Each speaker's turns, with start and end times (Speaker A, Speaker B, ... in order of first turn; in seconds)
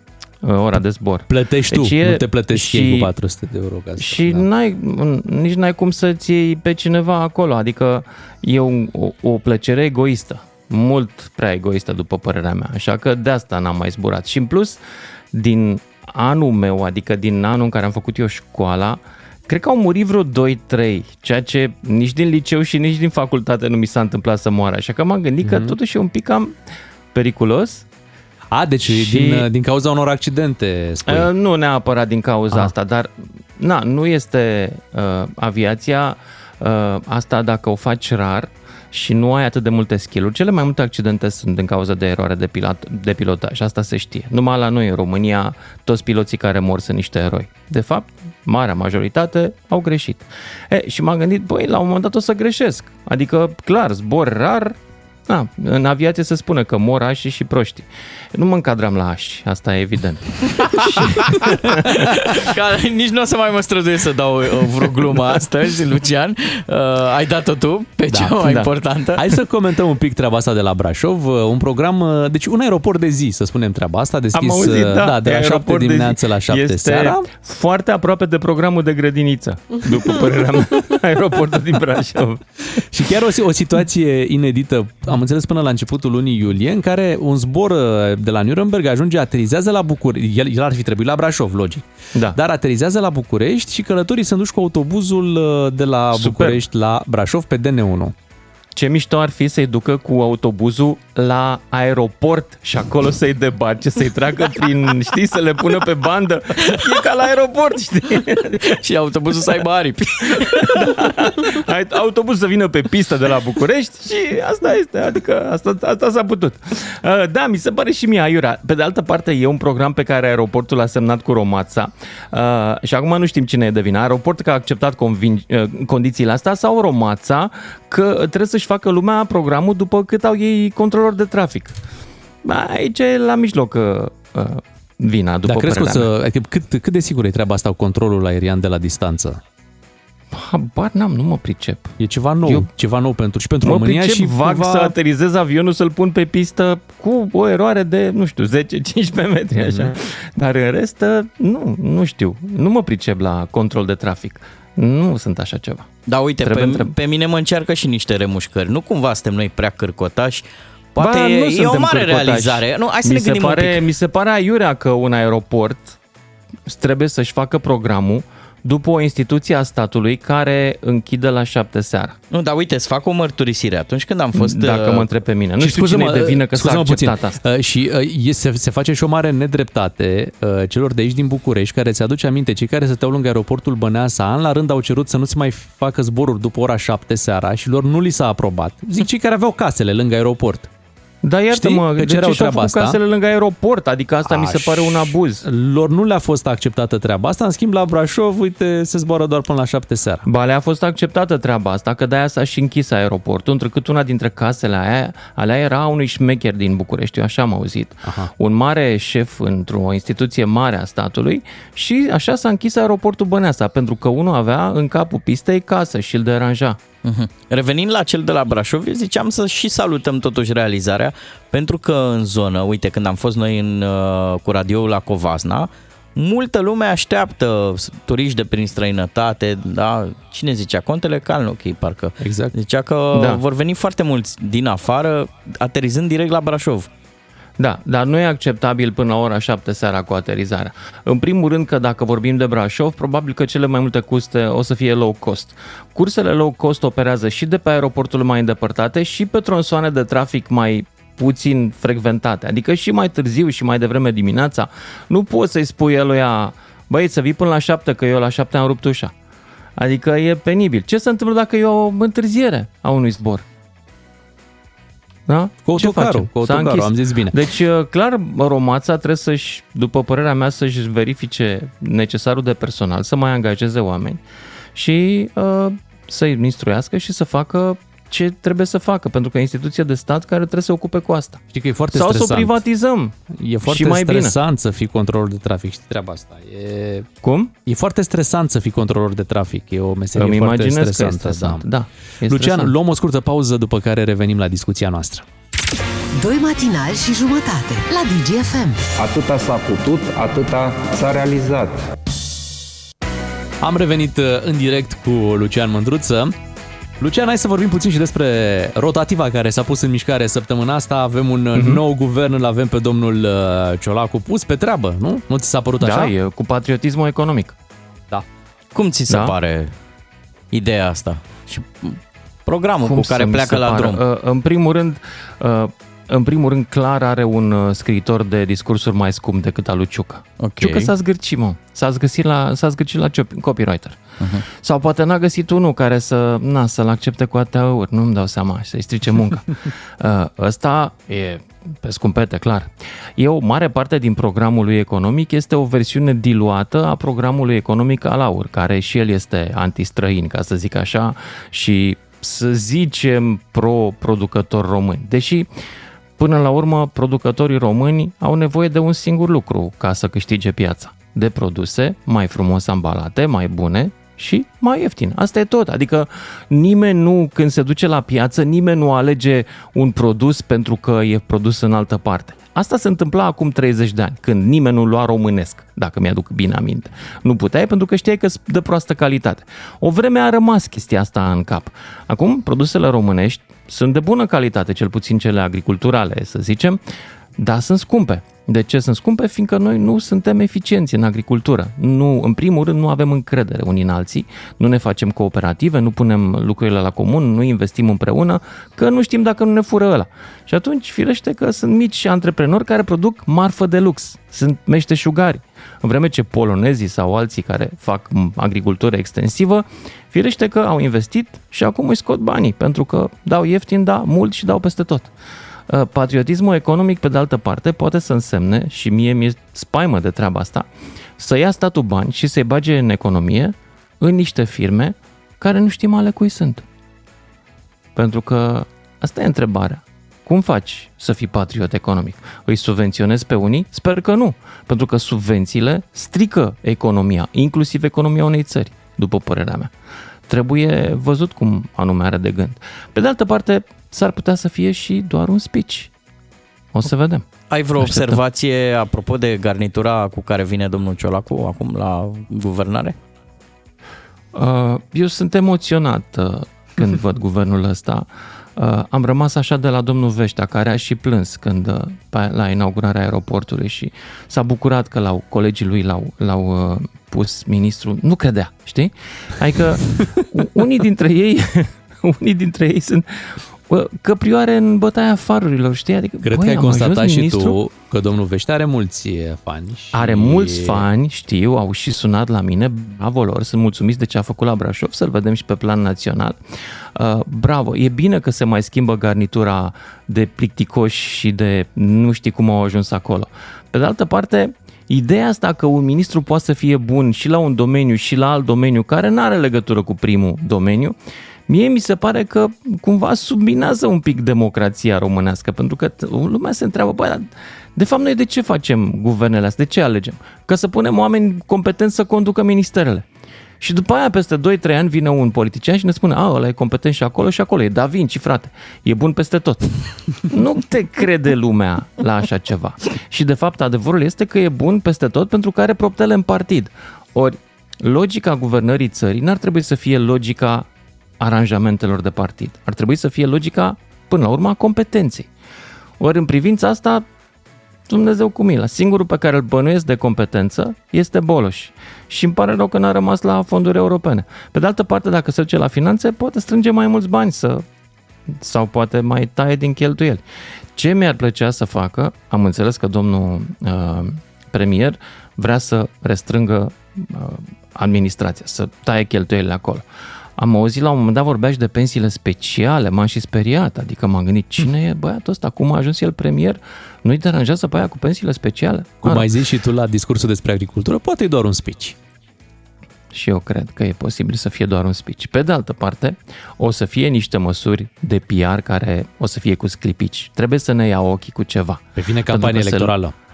Speaker A: 0.4-3.1, 4.0-14.8, 15.3-26.5, 27.1-27.8, 28.9-29.4, 31.1-54.8, 55.3-61.8, 74.3-82.4, 96.1-96.6, 98.8-108.6, 110.4-131.8, 132.4-136.1, 140.3-142.7, 143.6-155.9, 156.4-156.9, 161.0-165.9, 166.7-172.2, 174.4-177.3, 191.2-195.4, 200.2-216.8, 233.1-233.4, 237.6-259.1, 259.8-263.4, 265.3-274.2, 274.7-284.4, 287.2-287.5, 290.1-292.7, 311.5-311.8, 315.8-317.5, 319.1-319.3, 322.8-334.0, 334.5-339.5, 340.0-355.5, 356.2-386.8, 387.4-415.1, 415.7-420.7, 421.2-426.6, 427.9-439.7, 440.3-445.9, 446.7-447.3, 454.3-477.6, 479.9-486.4, 486.9-500.9, 501.5-513.0, 513.6-519.7, 520.3-530.6, 531.2-535.3, 536.0-537.0, 537.9-547.6, 548.4-550.2, 550.8-559.8, 560.4-569.3, 573.1-583.0
Speaker B: 1.3-4.5, 25.4-25.7, 28.5-31.3, 68.1-68.4, 69.2-77.3, 82.7-98.1, 135.4-139.4, 142.0-144.9, 175.6-190.7, 191.5-193.0, 194.2-200.2, 232.2-232.5, 265.6-267.4, 281.5-282.6, 283.3-287.1, 287.7-291.6, 292.2-295.2, 303.6-306.3, 307.0-316.1, 447.8-448.2, 476.2-480.9, 569.0-572.0, 582.0-583.1
Speaker C: 61.8-69.2, 106.6-107.6, 108.4-110.7, 114.1-114.5, 156.1-163.8, 172.3-175.1, 217.0-236.9, 318.7-319.7, 320.5-324.0, 330.4-330.9, 447.5-452.9
Speaker D: 296.1-298.8
Speaker E: 299.0-301.8